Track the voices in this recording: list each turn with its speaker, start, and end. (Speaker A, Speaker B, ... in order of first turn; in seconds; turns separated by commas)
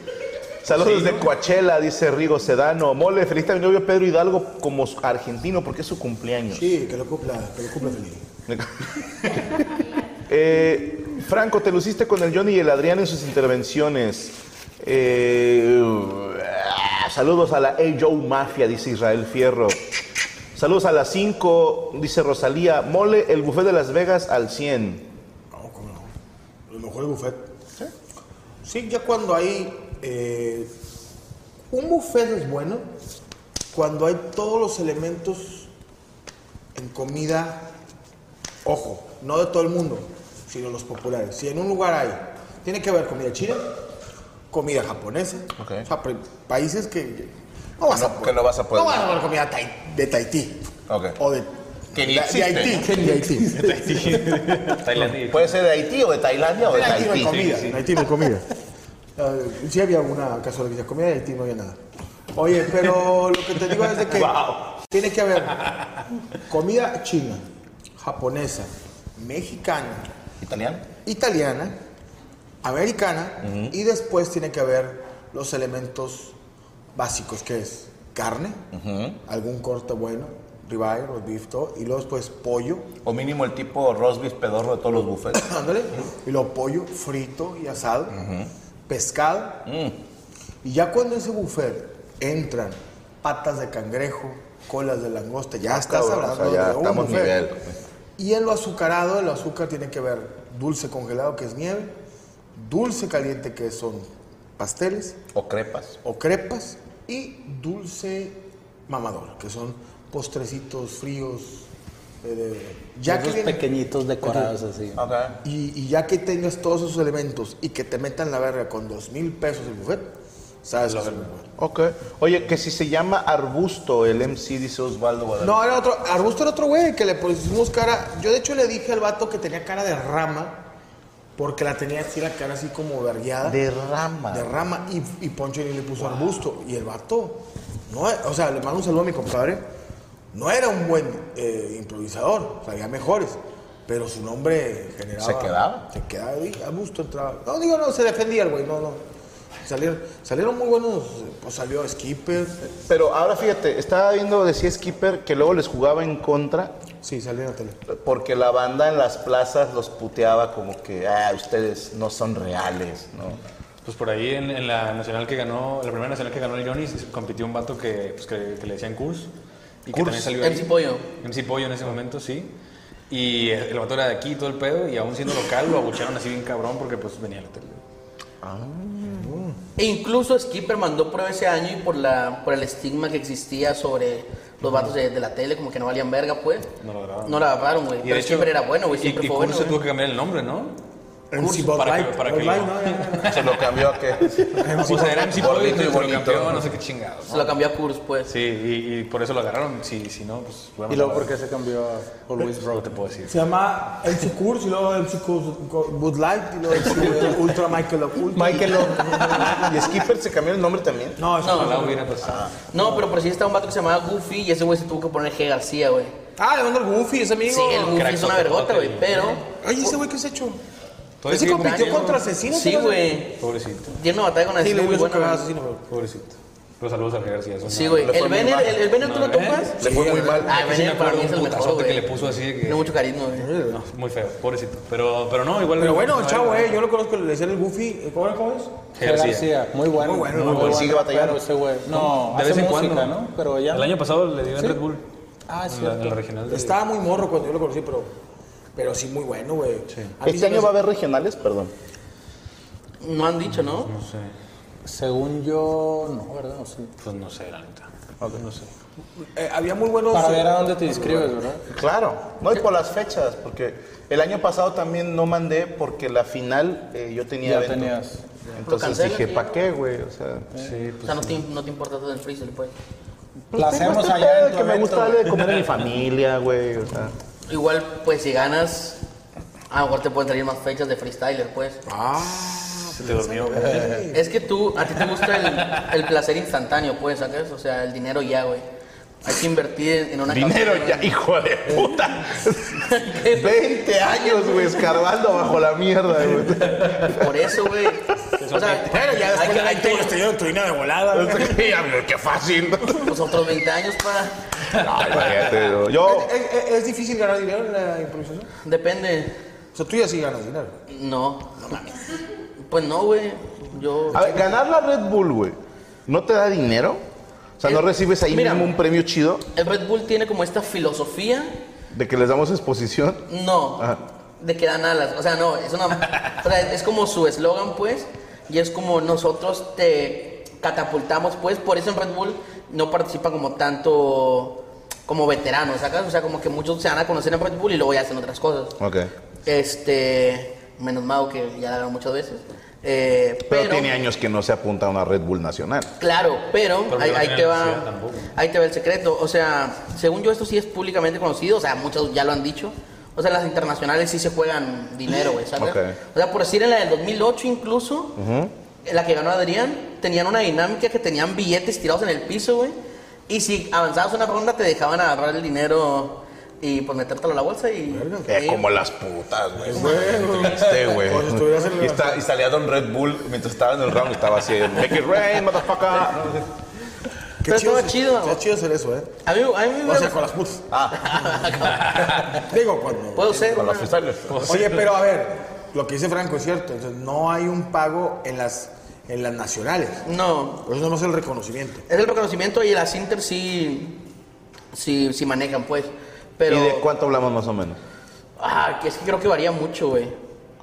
Speaker A: 0.6-6.7, Speaker B: 0.9-1.2, Speaker C: 6.5-8.3, Speaker A: 8.5-8.9, Speaker A: 10.2-19.8, Speaker A: 20.5-25.1, Speaker C: 25.5-26.1, Speaker C: 26.7-27.4, Speaker C: 28.6-30.7, Speaker C: 31.7-32.8, Speaker C: 33.7-35.7, Speaker C: 36.7-37.7, Speaker C: 38.6-43.7, Speaker C: 44.5-50.6, Speaker A: 45.6-45.9, Speaker A: 47.9-49.1, Speaker A: 50.9-51.2, Speaker C: 51.2-54.8, Speaker A: 51.9-53.0, Speaker B: 53.3-55.5, Speaker A: 55.2-57.6, Speaker C: 56.6-58.5, Speaker B: 56.9-57.9, Speaker C: 59.1-61.8, Speaker C: 62.3-65.7, Speaker A: 64.0-64.7, Speaker C: 66.5-67.4, Speaker C: 68.0-70.1, Speaker A: 70.4-70.9, Speaker C: 71.0-71.8, Speaker C: 72.6-76.3, Speaker A: 73.4-73.7, Speaker C: 76.9-78.6, Speaker A: 78.7-79.2, Speaker C: 79.2-82.9, Speaker A: 83.0-85.5, Speaker C: 85.3-88.2, Speaker A: 88.1-88.5, Speaker C: 88.9-89.6, Speaker A: 89.7-90.0, Speaker C: 90.6-97.4, Speaker A: 95.7-97.8, Speaker C: 98.2-101.9, Speaker C: 102.5-105.2, Speaker A: 105.3-106.0, Speaker C: 106.0-111.7, Speaker C: 112.2-113.7, Speaker D: 113.0-115.0, Speaker C: 114.2-114.5, Speaker A: 115.0-115.3, Speaker C: 115.4-120.1, Speaker C: 120.6-121.3, Speaker B: 120.8-121.4, Speaker A: 121.6-125.6, Speaker C: 125.4-130.7, Speaker C: 131.3-133.6, Speaker A: 133.4-134.6, Speaker C: 134.3-139.6, Speaker C: 140.3-149.0, Speaker A: 145.2-145.9, Speaker C: 149.6-152.7, Speaker A: 152.9-156.7, Speaker C: 157.0-157.8, Speaker A: 157.9-163.4, Speaker B: 163.8-169.3, Speaker B: 169.8-170.7, Speaker A: 169.9-170.3, Speaker E: 170.4-171.1, Speaker B: 171.2-172.5, Speaker B: 173.1-177.8, Speaker A: 178.4-179.4, Speaker E: 179.8-186.7, Speaker B: 184.6-184.9, Speaker B: 186.8-187.4, Speaker E: 187.2-189.8, Speaker B: 188.0-190.7, Speaker C: 191.3-193.4, Speaker B: 191.4-193.7, Speaker A: 193.2-196.7, Speaker B: 194.3-197.5, Speaker C: 194.5-195.9, Speaker E: 197.3-198.3, Speaker B: 198.3-201.3, Speaker D: 200.9-203.0, Speaker B: 202.4-203.3, Speaker C: 203.3-210.0, Speaker D: 207.1-207.3, Speaker D: 208.3-209.7, Speaker A: 209.5-211.2, Speaker C: 211.2-212.1, Speaker E: 211.4-211.9, Speaker B: 211.4-212.6, Speaker A: 212.2-212.5, Speaker E: 212.7-216.1, Speaker C: 216.4-218.0, Speaker E: 217.4-219.4, Speaker B: 217.8-219.4, Speaker C: 219.6-220.6, Speaker B: 221.2-222.2, Speaker C: 221.3-223.1, Speaker E: 221.5-225.5, Speaker B: 223.4-223.9, Speaker C: 224.6-225.8, Speaker B: 225.9-229.8, Speaker E: 227.7-229.8, Speaker A: 228.0-228.8, Speaker C: 229.8-230.5, Speaker A: 229.8-230.6, Speaker E: 230.4-232.1, Speaker B: 230.4-232.9, Speaker E: 232.6-233.5, Speaker C: 233.3-233.8, Speaker B: 233.7-236.8, Speaker C: 235.8-238.8, Speaker B: 239.0-239.5, Speaker D: 239.0-244.0, Speaker C: 239.9-240.9, Speaker B: 240.3-240.8, Speaker A: 240.6-241.4, Speaker B: 241.9-243.2, Speaker B: 243.7-245.0, Speaker D: 244.5-244.8, Speaker D: 245.5-246.2, Speaker B: 245.7-246.8, Speaker C: 246.4-248.1, Speaker C: 248.7-250.7, Speaker A: 250.2-251.7, Speaker E: 253.0-253.9, Speaker B: 253.6-254.3, Speaker D: 254.8-256.9, Speaker B: 257.0-258.7, Speaker C: 259.2-261.3, Speaker D: 260.1-261.6, Speaker A: 261.7-267.9, Speaker D: 267.4-268.2, Speaker A: 268.6-270.5, Speaker E: 268.6-269.6, Speaker B: 270.5-271.4, Speaker E: 271.0-272.7, Speaker D: 273.5-275.6, Speaker A: 273.5-277.1, Speaker E: 277.5-279.0, Speaker E: 279.7-281.8, Speaker C: 281.9-284.2, Speaker B: 282.9-284.1, Speaker E: 284.1-288.6, Speaker B: 285.3-285.9, Speaker E: 289.2-291.1, Speaker A: 290.3-297.3, Speaker E: 292.8-293.6, Speaker E: 294.3-294.7, Speaker E: 297.0-300.2, Speaker B: 298.4-298.9, Speaker C: 298.5-301.6, Speaker A: 301.1-303.3, Speaker E: 303.1-304.5, Speaker A: 304.7-306.3, Speaker C: 305.9-308.5, Speaker E: 308.6-309.4, Speaker C: 309.7-310.8, Speaker E: 310.9-311.6, Speaker C: 311.6-311.9, Speaker E: 312.6-314.5, Speaker A: 314.1-317.0, Speaker A: 317.6-319.5, Speaker E: 317.6-318.8, Speaker E: 319.5-321.6, Speaker A: 321.9-323.2, Speaker E: 323.3-338.8, Speaker A: 338.8-339.1, Speaker E: 339.4-343.9, Speaker A: 343.5-345.9, Speaker E: 346.0-358.2, Speaker B: 346.9-348.3, Speaker A: 355.6-356.0, Speaker A: 358.2-358.5, Speaker E: 358.8-362.8, Speaker E: 363.3-368.7, Speaker C: 367.9-368.3, Speaker A: 368.3-376.4, Speaker C: 369.6-372.2, Speaker C: 377.4-379.1, Speaker E: 377.4-378.4, Speaker E: 379.2-380.3, Speaker C: 379.8-380.6, Speaker A: 380.7-381.3, Speaker E: 381.0-382.4, Speaker C: 382.3-383.7, Speaker E: 383.1-383.9, Speaker A: 383.5-384.7, Speaker B: 384.3-384.7, Speaker C: 384.4-390.0, Speaker E: 390.0-390.6, Speaker C: 390.6-391.8, Speaker E: 391.9-394.0, Speaker E: 394.7-396.9, Speaker A: 396.5-397.8, Speaker E: 398.4-400.1